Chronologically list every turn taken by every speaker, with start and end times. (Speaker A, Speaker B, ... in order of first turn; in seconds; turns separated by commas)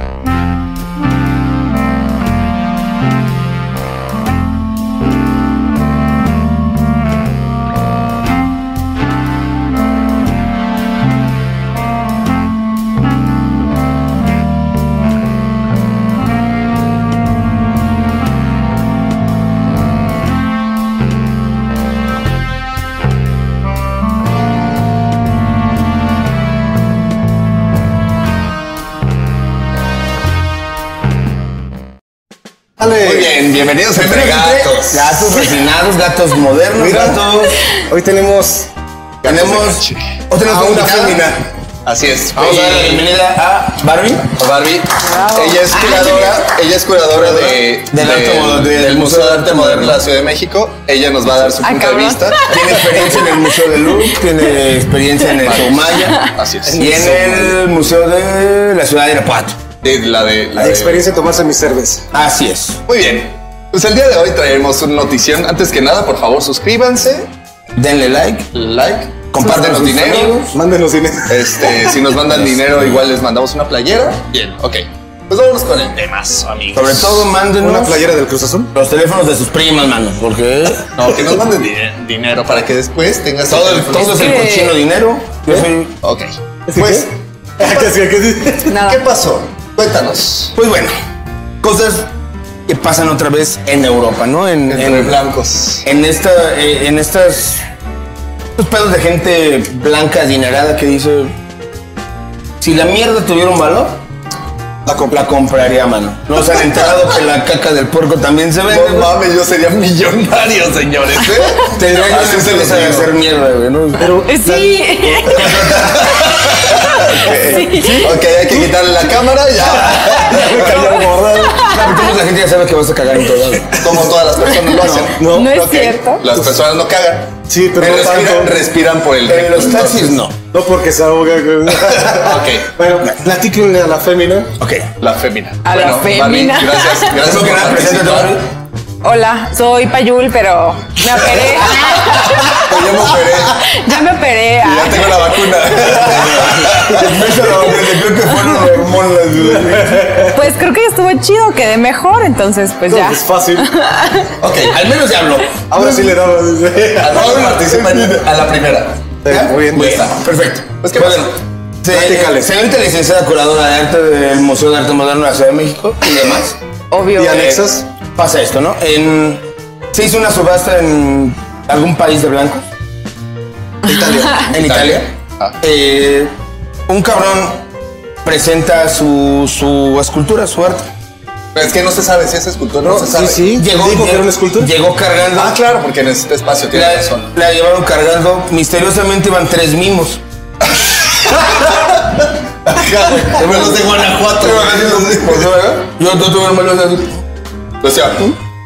Speaker A: 32.8-33.3, Speaker B: 33.0-35.4, Speaker C: 33.9-37.6, Speaker A: 36.8-37.2, Speaker A: 37.9-38.7, Speaker B: 39.2-40.0, Speaker C: 39.2-41.5, Speaker A: 40.4-41.3, Speaker B: 41.9-43.1, Speaker C: 42.4-44.4, Speaker B: 44.4-52.6, Speaker D: 45.0-46.4, Speaker C: 45.8-46.3, Speaker C: 47.1-50.0, Speaker D: 51.6-54.0, Speaker C: 52.5-59.6, Speaker B: 55.4-57.0, Speaker D: 56.0-56.3, Speaker A: 56.6-57.6, Speaker B: 59.8-61.0, Speaker A: 60.6-62.0, Speaker C: 62.1-62.8, Speaker B: 62.9-67.3, Speaker C: 67.8-68.5, Speaker B: 68.5-70.4, Speaker C: 69.3-70.5, Speaker A: 70.5-72.0, Speaker B: 71.3-77.3, Speaker C: 76.7-78.0, Speaker A: 77.6-78.7, Speaker C: 78.8-80.9, Speaker B: 81.0-84.4, Speaker C: 83.5-86.0, Speaker D: 84.0-84.8, Speaker B: 86.0-87.1, Speaker A: 86.7-88.8, Speaker D: 88.7-89.0, Speaker B: 88.7-90.5, Speaker C: 90.6-90.9, Speaker C: 91.6-92.1, Speaker C: 92.7-95.2, Speaker B: 94.7-95.8, Speaker C: 95.8-97.6, Speaker C: 98.6-101.3, Speaker C: 102.6-104.0, Speaker A: 104.9-105.3, Speaker C: 105.1-109.1, Speaker B: 108.7-113.1, Speaker C: 111.7-114.1, Speaker A: 114.0-115.3, Speaker D: 114.2-115.5, Speaker C: 115.2-116.3, Speaker B: 115.4-121.0, Speaker D: 116.7-118.1, Speaker C: 117.0-118.1, Speaker A: 119.7-121.7, Speaker D: 121.3-122.1, Speaker C: 121.6-124.1, Speaker B: 123.8-130.2, Speaker D: 124.5-126.3, Speaker C: 124.8-125.1, Speaker A: 125.2-125.5, Speaker A: 127.5-128.6, Speaker C: 129.2-130.4, Speaker A: 130.5-134.5, Speaker B: 131.9-132.7, Speaker C: 134.6-134.9, Speaker B: 135.0-138.3, Speaker D: 135.7-137.2, Speaker C: 137.2-138.4, Speaker D: 139.0-145.4, Speaker B: 141.7-143.8, Speaker B: 144.6-147.3, Speaker C: 145.8-150.3, Speaker A: 149.4-150.4, Speaker D: 150.3-154.3, Speaker A: 152.9-153.7, Speaker B: 154.4-154.8, Speaker C: 154.7-155.8, Speaker A: 155.7-157.5, Speaker B: 157.0-159.1, Speaker C: 157.2-158.2, Speaker A: 159.2-160.0, Speaker C: 159.3-166.6, Speaker B: 159.7-160.2, Speaker B: 160.8-161.3, Speaker A: 161.9-162.5, Speaker D: 166.9-167.5, Speaker A: 167.2-167.9, Speaker C: 167.3-167.7, Speaker C: 168.2-172.6, Speaker A: 173.8-174.5, Speaker C: 174.5-175.1, Speaker B: 174.5-175.6, Speaker C: 175.6-176.3, Speaker C: 176.9-177.6, Speaker C: 178.2-180.9, Speaker B: 181.5-183.5, Speaker A: 182.8-184.7, Speaker C: 183.6-185.6, Speaker B: 185.3-187.3, Speaker C: 186.7-190.2, Speaker B: 190.8-195.5, Speaker C: 193.4-193.8, Speaker C: 194.4-197.2, Speaker B: 197.8-198.3